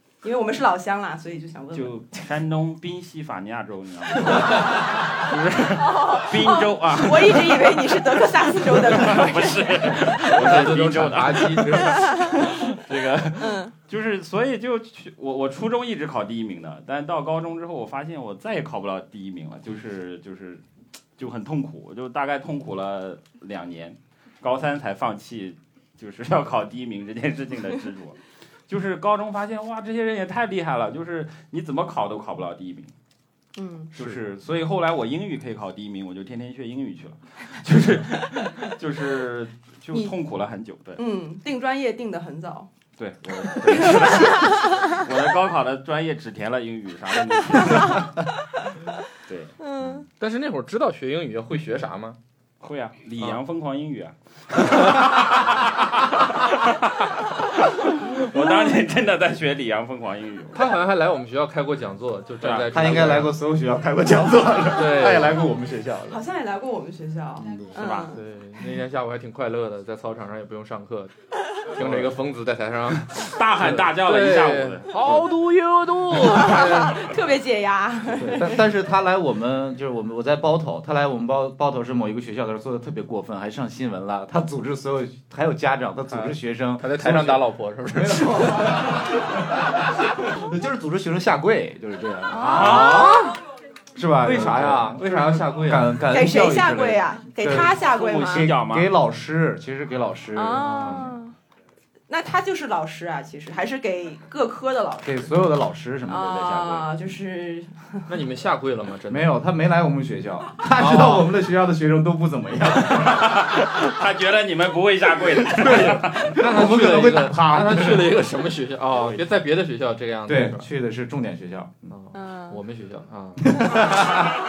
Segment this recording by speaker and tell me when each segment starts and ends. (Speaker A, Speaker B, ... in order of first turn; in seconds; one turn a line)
Speaker A: 0.2-2.0
Speaker B: 1.7-8.0
Speaker A: 5.7-10.0
Speaker B: 8.5-20.6
Speaker C: 9.9-12.5
Speaker A: 11.9-12.5
Speaker A: 13.4-13.7
Speaker B: 21.2-32.9
Speaker A: 33.6-33.9
Speaker B: 34.0-41.0
Speaker A: 41.0-42.7
Speaker B: 43.0-48.1
Speaker A: 43.8-45.0
Speaker B: 49.2-49.6
Speaker A: 49.6-50.1
Speaker C: 50.1-52.2
Speaker B: 52.6-60.7
Speaker A: 58.4-58.7
Speaker C: 60.5-63.4
Speaker B: 62.4-62.7
Speaker D: 62.7-66.2
Speaker C: 64.8-65.5
Speaker A: 66.1-68.2
Speaker D: 67.4-67.8
Speaker B: 67.7-68.1
Speaker C: 68.1-71.1
Speaker C: 71.7-77.2
Speaker D: 71.8-72.1
Speaker B: 73.2-75.2
Speaker A: 76.1-78.6
Speaker D: 78.1-93.2
Speaker C: 86.1-88.9
Speaker A: 92.3-93.3
Speaker C: 92.5-93.4
Speaker D: 94.0-97.8
Speaker C: 94.2-96.0
Speaker A: 96.1-98.5
Speaker B: 97.5-98.9
Speaker D: 98.3-101.1
Speaker A: 100.3-101.3
Speaker C: 100.6-101.1
Speaker A: 102.1-105.3
Speaker D: 105.0-106.9
Speaker A: 106.1-108.1
Speaker C: 108.1-109.3
Speaker D: 109.1-113.4
Speaker C: 110.8-111.3
Speaker B: 112.9-116.4
Speaker D: 115.5-118.2
Speaker C: 115.6-120.7
Speaker D: 120.3-121.9
Speaker C: 121.9-123.8
Speaker A: 122.1-122.6
Speaker D: 123.5-124.3